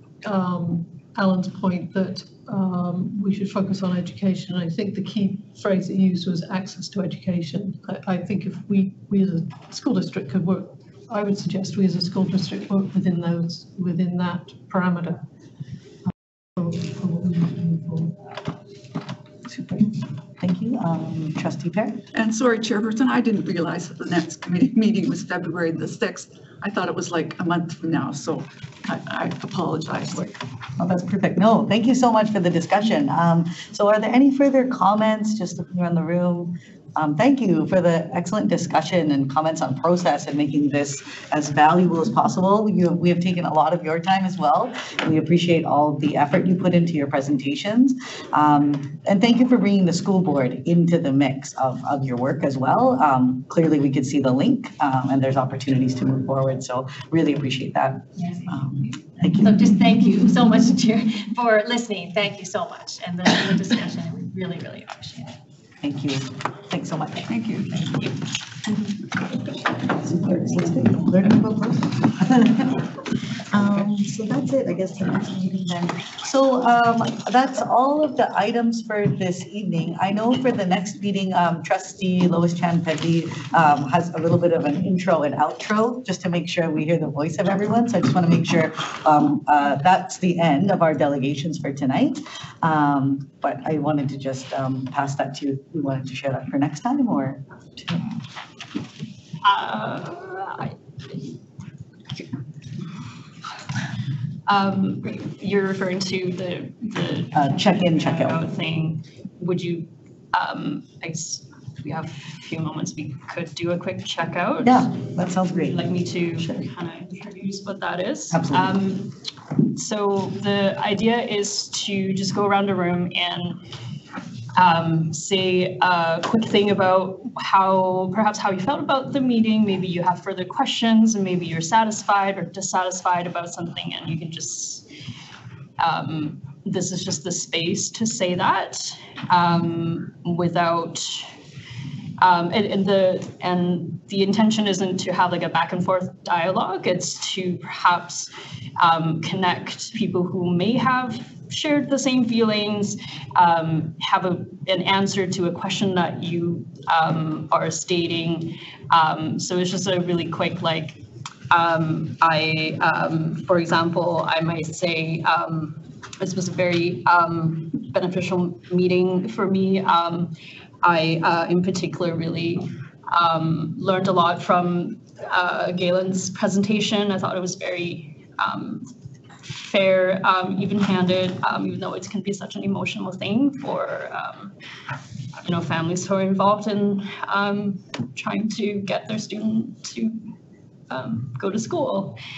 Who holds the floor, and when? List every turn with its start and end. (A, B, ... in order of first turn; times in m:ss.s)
0:00.2-0:15.2 A
0:16.6-0:18.2 A
0:19.5-0:22.0 B
0:22.1-0:30.4 C
0:30.8-0:59.6 B
0:59.4-1:05.3 D
1:05.8-1:07.3 B
1:07.3-1:07.9 C
1:09.9-1:12.8 B
1:13.5-1:38.1 B
1:39.4-1:40.8 E
1:44.5-1:59.1 E
1:47.3-1:48.4 B
1:54.6-1:55.8 B
1:56.4-1:56.6 B
1:58.3-1:58.7 B
1:59.7-2:03.6 E
2:04.6-2:14.9 E
2:15.8-2:21.3 E
2:22.2-2:58.9 E
2:59.4-3:04.5 E
3:05.4-3:10.3 E
3:10.9-3:12.2 E